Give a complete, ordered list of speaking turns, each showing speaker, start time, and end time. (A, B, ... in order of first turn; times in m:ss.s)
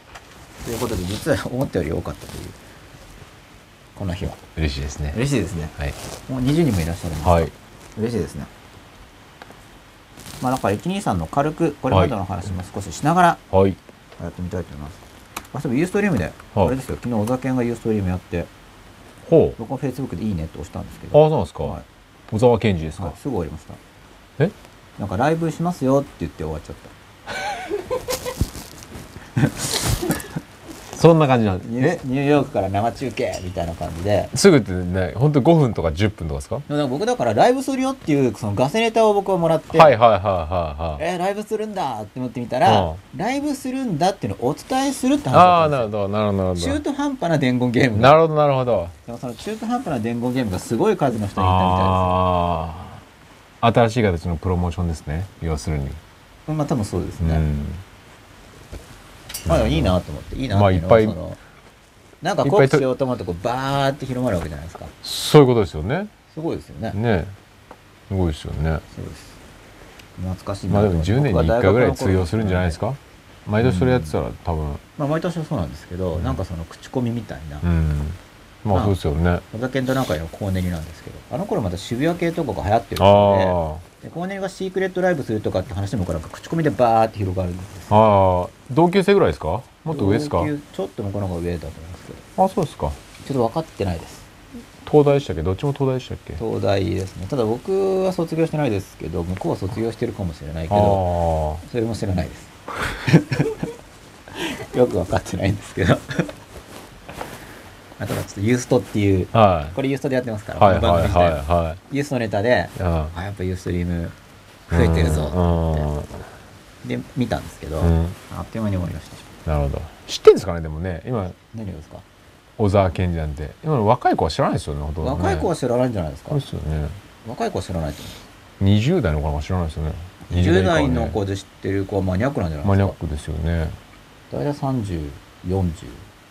0:00.6-0:02.6 A
0:03.9-0:04.4 A
0:04.6-0:05.2 B
0:05.1-0:05.8 A
0:06.3-0:08.5 A
0:07.2-0:07.5 B
0:10.4-0:13.4 A
0:13.5-0:13.8 B
0:14.2-0:15.0 A
0:15.5-0:18.5 A
0:19.2-0:19.6 B
0:19.6-0:21.8 A
0:21.1-0:21.8 B
0:22.3-0:23.2 B
0:23.0-0:23.8 A
0:25.0-0:26.9 A
0:29.4-0:29.7 A
0:30.9-0:32.0 B
0:31.6-0:34.3 A
0:34.3-0:36.6 B
0:36.7-0:39.9 A
0:39.7-0:41.0 B
0:41.0-0:45.9 A
0:42.6-0:43.0 B
0:45.3-0:46.8 B
0:46.6-0:48.2 A
0:47.9-0:48.9 B
0:49.0-0:52.2 A
0:51.4-0:53.0 B
0:53.6-0:56.0 B
0:56.5-0:57.4 A
0:57.2-0:57.8 B
0:59.4-1:00.0 B
0:59.4-1:01.4 A
1:00.5-1:01.2 B
1:02.2-1:04.9 A
1:02.4-1:02.8 B
1:05.0-1:06.1 B
1:06.3-1:07.0 A
1:06.9-1:07.3 B
1:08.1-1:08.8 B
1:08.9-1:09.4 A
1:10.2-1:12.8 A
1:10.7-1:14.8 B
1:13.6-1:14.2 A
1:15.0-1:17.6 A
1:16.2-1:16.4 B
1:17.6-1:19.4 B
1:18.7-1:19.0 A
1:19.5-1:27.9 A
1:23.0-1:23.8 B
1:27.9-1:30.5 B
1:29.9-1:32.2 A
1:32.4-1:33.0 B
1:33.2-1:34.3 A
1:34.8-1:36.4 B
1:36.4-1:41.0 A
1:40.7-1:41.6 B
1:41.6-1:43.7 A
1:44.3-1:46.3 A
1:48.0-1:54.1 A
1:49.3-1:49.8 B
1:50.6-1:51.8 B
1:52.8-1:53.1 B
1:54.7-1:55.9 A
1:54.7-1:56.2 B
1:56.8-1:59.3 A
1:57.8-1:58.2 B
1:59.4-2:01.4 B
2:01.5-2:02.0 A
2:02.6-2:05.5 B
2:05.0-2:06.4 A
2:06.3-2:07.0 B
2:07.2-2:08.2 A
2:08.6-2:11.2 B
2:10.3-2:13.0 A
2:12.6-2:13.8 B
2:14.3-2:16.0 A